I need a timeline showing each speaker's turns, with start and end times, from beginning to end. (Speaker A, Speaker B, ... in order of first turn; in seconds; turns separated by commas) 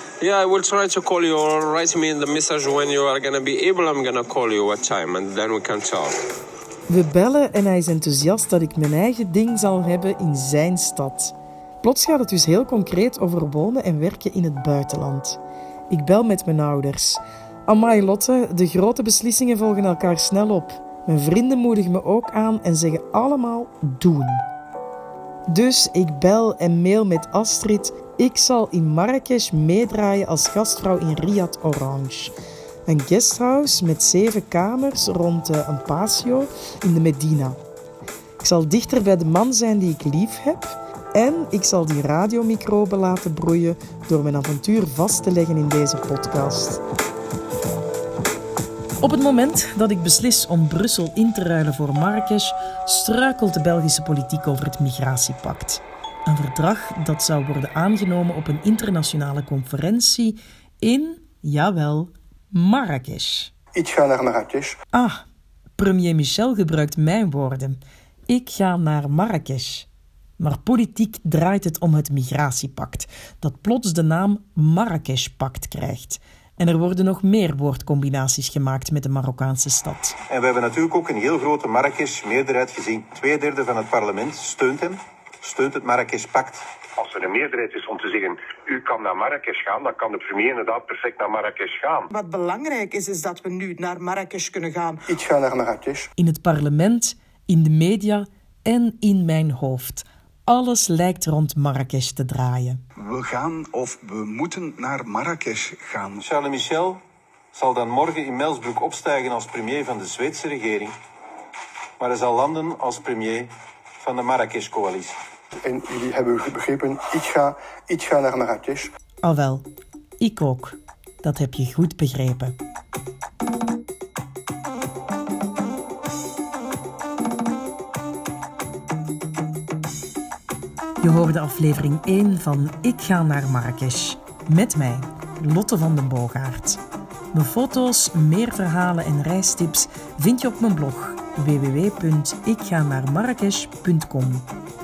Speaker A: 0.2-6.1, Speaker B: 6.9-24.4, Speaker B: 25.5-32.4, Speaker B: 32.9-37.6, Speaker B: 38.4-46.8, Speaker B: 49.0-63.5, Speaker C: 63.8-64.8, Speaker B: 64.9-65.2, Speaker B: 65.8-69.9, Speaker B: 70.4-80.2, Speaker D: 80.3-86.6, Speaker E: 87.0-92.0, Speaker F: 92.1-95.1, Speaker C: 95.2-96.0, Speaker B: 96.2-102.8, Speaker G: 103.0-106.3, Speaker D: 106.2-107.0, Speaker D: 107.5-110.9, Speaker D: 112.0-113.5, Speaker D: 114.0-115.2, Speaker C: 115.6-118.9, Speaker B: 119.2-119.7, Speaker B: 120.2-122.5, Speaker B: 131.0-136.8, Speaker B: 137.3-144.5